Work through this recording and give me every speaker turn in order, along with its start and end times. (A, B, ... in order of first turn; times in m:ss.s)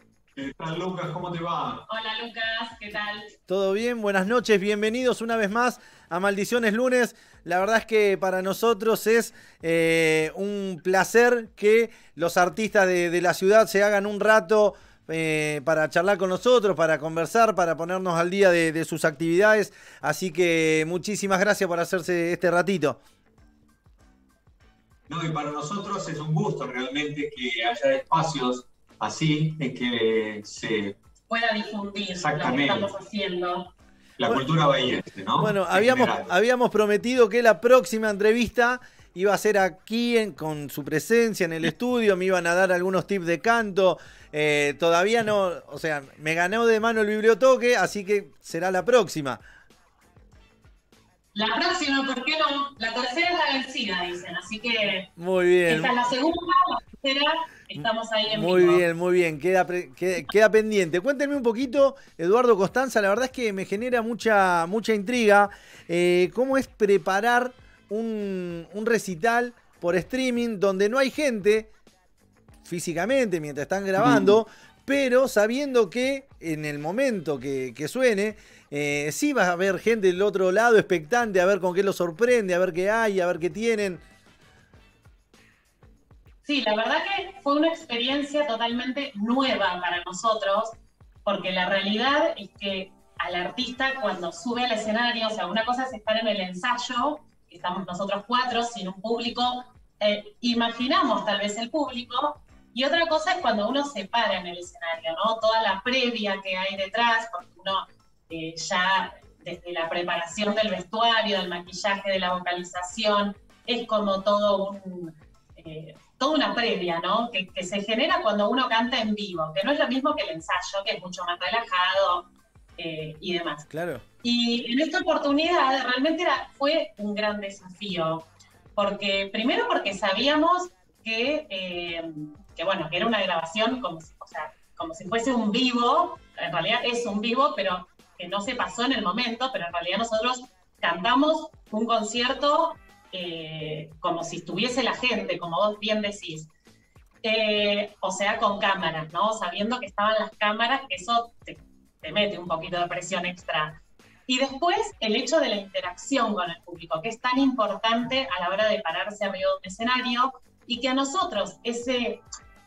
0:00.4-0:01.9 A
0:01.9-0:03.3 B
0:03.5-0:23.0 C
0:25.1-0:31.0 A
0:31.3-0:33.7 B
0:32.2-0:32.9 A
0:34.2-0:36.3 A
0:35.4-0:49.4 C
0:51.3-0:55.1 B
0:55.2-0:55.9 C
0:55.7-0:58.9 B
0:58.3-1:11.7 C
1:12.6-1:24.0 C
1:14.0-1:14.4 A
1:26.4-2:03.7 B
2:03.7-2:04.0 C
2:04.2-2:26.5 B
2:27.2-2:42.2 B